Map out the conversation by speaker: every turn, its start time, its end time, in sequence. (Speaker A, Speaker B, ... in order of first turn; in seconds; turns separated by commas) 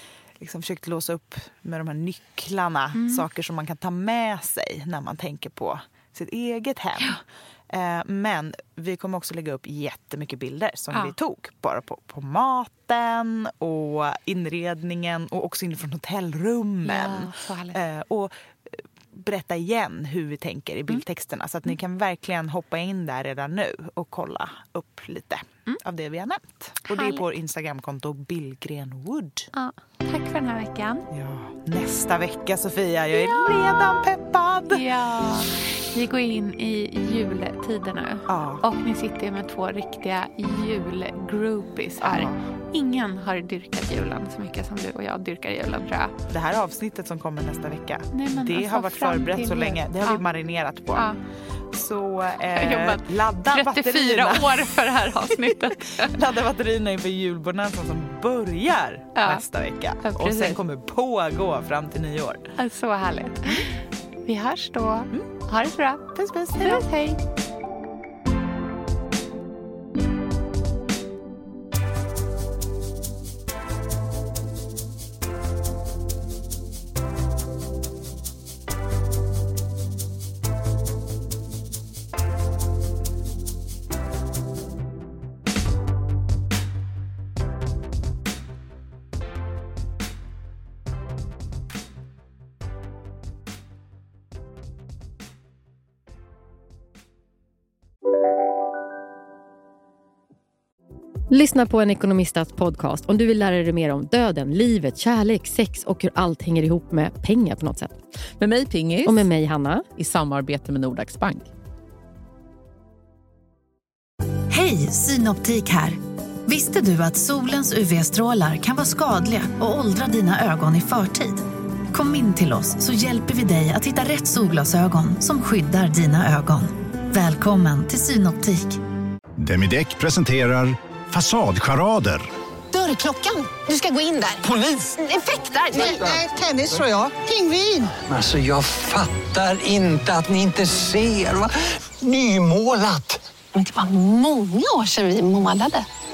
Speaker A: 0.4-29.5, Speaker B: 3.0-3.2, Speaker B: 16.8-17.8, Speaker B: 26.9-27.2, Speaker B: 29.5-31.1, Speaker A: 31.1-34.8, Speaker B: 33.1-33.4, Speaker B: 34.7-46.1, Speaker A: 38.3-38.6, Speaker A: 42.0-42.5, Speaker A: 46.3-51.1, Speaker B: 48.1-50.2, Speaker A: 51.7-62.5, Speaker B: 52.5-56.2, Speaker B: 59.1-59.5, Speaker B: 60.0-60.6, Speaker B: 62.6-67.2, Speaker A: 66.1-66.8, Speaker C: 101.3-108.0, Speaker D: 108.4-109.3, Speaker C: 109.0-109.9, Speaker D: 109.9-111.5, Speaker E: 114.5-128.8, Speaker F: 129.4-132.3, Speaker G: 133.2-134.1, Speaker E: 135.4-135.9, Speaker H: 135.7-137.8, Speaker I: 137.9-143.2, Speaker G: 143.6-145.8